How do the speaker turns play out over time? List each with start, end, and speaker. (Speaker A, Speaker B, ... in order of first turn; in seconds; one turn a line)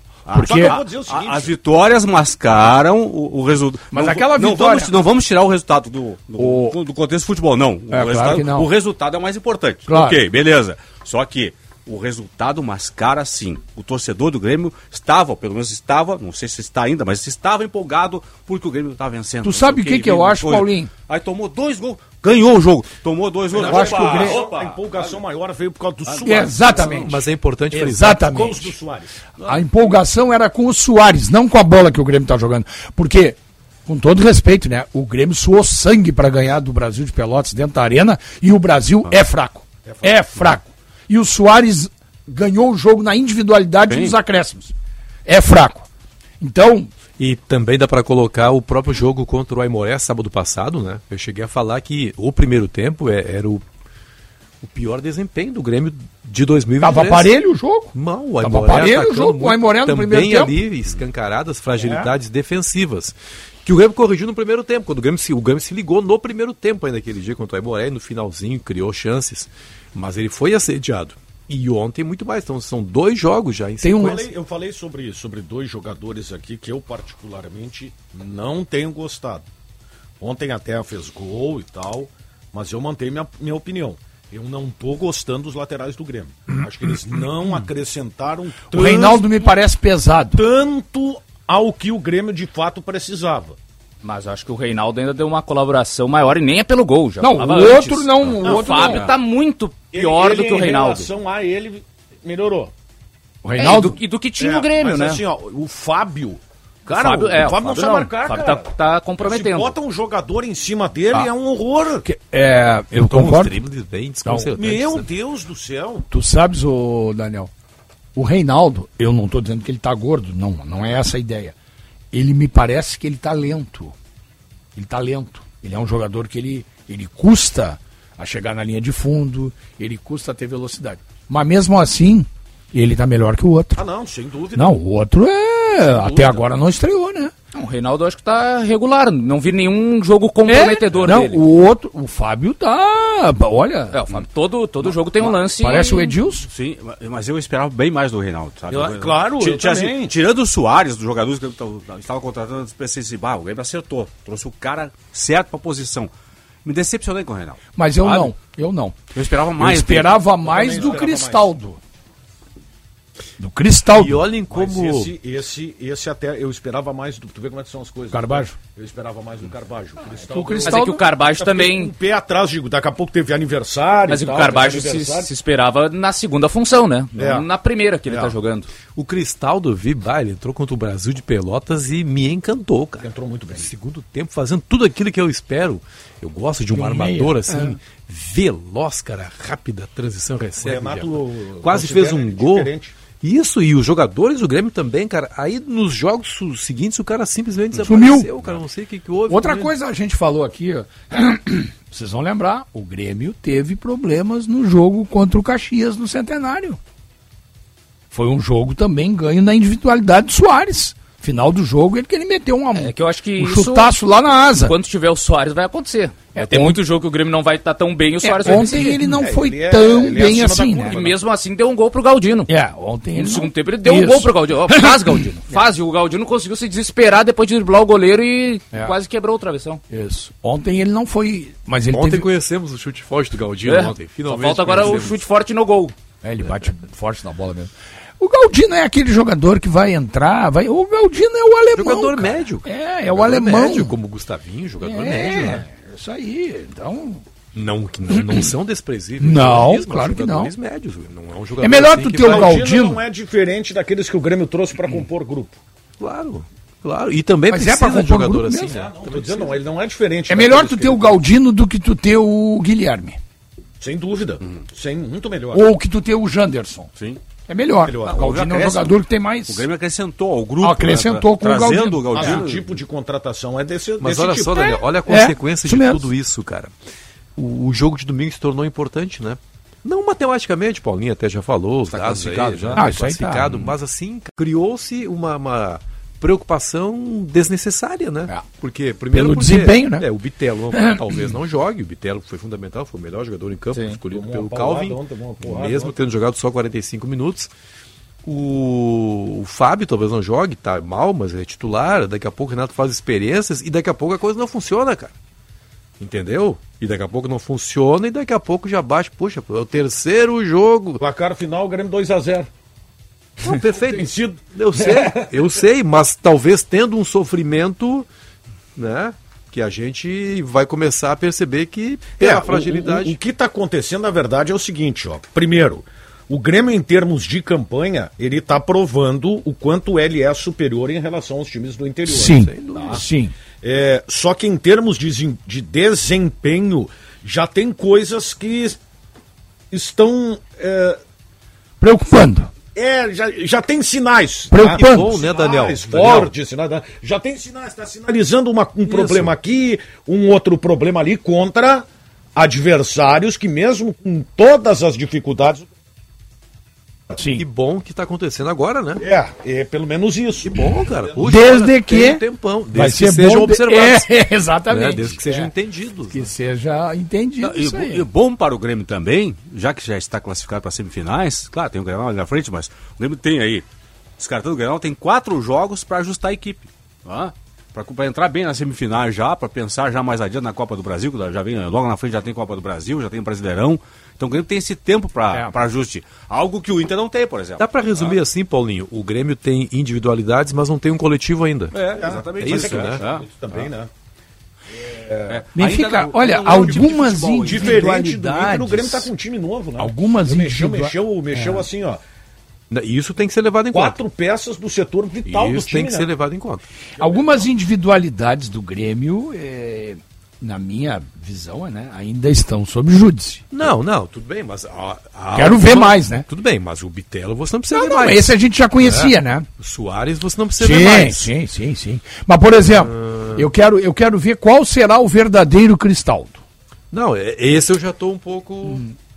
Speaker A: 0.3-25.1
Speaker B: 0.3-0.8
Speaker C: 0.4-1.5
Speaker B: 3.9-4.9
Speaker B: 6.4-6.8
Speaker B: 7.9-8.7
Speaker B: 9.9-10.2
Speaker B: 19.4-20.9
Speaker C: 23.5-27.1
Speaker B: 23.6-24.4
Speaker A: 26.1-26.9
Speaker B: 26.2-28.8
Speaker D: 26.9-28.3
Speaker C: 28.2-29.1
Speaker B: 29.4-44.7
Speaker C: 39.9-40.3
Speaker A: 43.9-44.2
Speaker B: 45.3-45.9
Speaker B: 46.4-46.9
Speaker D: 47.2-53.6
Speaker D: 54.6-57.4
Speaker B: 56.8-60.6
Speaker D: 57.9-74.2
Speaker C: 61.8-62.1
Speaker B: 73.8-74.2
Speaker C: 74.0-79.4
Speaker C: 80.2-89.3
Speaker B: 88.7-90.4
Speaker C: 90.3-93.6
Speaker E: 94.0-101.1
Speaker B: 97.2-99.1
Speaker C: 98.4-98.9
Speaker C: 99.9-102.7
Speaker B: 103.4-104.0
Speaker E: 103.6-105.2
Speaker C: 104.4-108.7
Speaker E: 106.9-109.7
Speaker C: 109.2-112.0
Speaker B: 112.0-113.6
Speaker D: 113.0-115.1
Speaker B: 114.2-114.5
Speaker C: 114.6-116.1
Speaker B: 116.1-117.5
Speaker B: 118.2-121.5
Speaker B: 122.1-123.9
Speaker B: 124.8-133.8
Speaker C: 133.8-134.8
Speaker B: 134.6-137.3
Speaker C: 135.8-136.5
Speaker E: 137.5-141.4
Speaker B: 140.5-144.0
Speaker E: 143.9-146.2
Speaker B: 145.2-146.5
Speaker A: 146.4-156.1
Speaker C: 148.7-150.2
Speaker A: 156.6-158.3
Speaker B: 157.8-159.0
Speaker A: 159.1-160.2
Speaker B: 159.6-161.8
Speaker C: 160.4-161.5
Speaker B: 163.4-164.3
Speaker D: 163.9-165.1
Speaker C: 164.5-170.8
Speaker B: 168.1-168.5
Speaker B: 170.3-171.0
Speaker E: 170.6-171.9
Speaker C: 171.4-175.3
Speaker E: 174.1-178.7
Speaker C: 177.2-177.5
Speaker C: 178.1-178.3
Speaker D: 178.9-199.7
Speaker C: 183.0-183.7
Speaker B: 186.7-187.8
Speaker C: 190.6-192.9
Speaker B: 197.8-198.3
Speaker B: 199.3-206.8
Speaker B: 208.1-214.7
Speaker E: 212.8-213.9
Speaker E: 214.6-219.0
Speaker B: 216.3-216.8
Speaker B: 218.2-221.0
Speaker C: 218.6-221.2
Speaker E: 220.9-222.5
Speaker B: 222.5-225.3
Speaker E: 223.2-229.8
Speaker B: 229.9-232.3
Speaker D: 231.9-235.2
Speaker E: 233.7-235.9
Speaker B: 236.2-244.0
Speaker D: 241.8-245.6
Speaker B: 244.8-247.2
Speaker D: 247.5-252.7
Speaker B: 248.1-248.5
Speaker B: 249.2-250.5
Speaker B: 251.6-253.0
Speaker C: 252.2-255.6
Speaker D: 256.0-259.6
Speaker B: 257.5-258.8
Speaker C: 258.6-261.2
Speaker B: 260.3-263.2
Speaker C: 263.8-265.7
Speaker B: 265.5-266.9
Speaker A: 267.0-267.2
Speaker B: 267.5-269.6
Speaker C: 267.9-268.3
Speaker A: 268.1-272.6
Speaker B: 270.6-272.4
Speaker C: 272.1-274.8
Speaker D: 274.0-276.7
Speaker B: 274.8-276.1
Speaker D: 277.4-297.5
Speaker A: 281.9-282.9
Speaker B: 282.8-283.7
Speaker B: 289.1-290.1
Speaker B: 290.7-291.3
Speaker C: 294.1-296.0
Speaker D: 298.2-305.1
Speaker D: 306.0-311.0
Speaker C: 311.0-312.5
Speaker D: 313.4-318.1
Speaker C: 313.5-315.3
Speaker D: 318.8-323.2
Speaker C: 322.2-333.0
Speaker B: 332.1-333.3
Speaker D: 332.3-333.0
Speaker C: 333.6-338.8
Speaker C: 339.7-341.0
Speaker B: 341.8-342.5
Speaker C: 342.8-355.7
Speaker B: 344.5-345.1
Speaker D: 344.6-346.3
Speaker D: 348.9-349.3
Speaker B: 357.2-357.4
Speaker D: 357.3-359.0
Speaker C: 359.0-360.7
Speaker D: 360.4-364.1
Speaker B: 361.2-365.5
Speaker D: 364.7-366.3
Speaker B: 366.1-368.1
Speaker A: 367.4-373.7
Speaker A: 374.2-388.2
Speaker D: 387.6-393.0
Speaker A: 391.7-393.2
Speaker C: 392.0-393.9
Speaker C: 394.8-395.4
Speaker A: 395.3-397.9
Speaker B: 395.6-399.1
Speaker C: 397.4-402.0
Speaker B: 399.8-401.6
Speaker D: 402.7-404.0
Speaker C: 403.7-406.1
Speaker D: 405.2-406.6
Speaker B: 407.0-413.4
Speaker D: 413.5-421.3
Speaker B: 415.3-416.3
Speaker B: 417.7-419.5
Speaker B: 420.6-426.4
Speaker D: 422.8-423.5
Speaker D: 426.9-428.8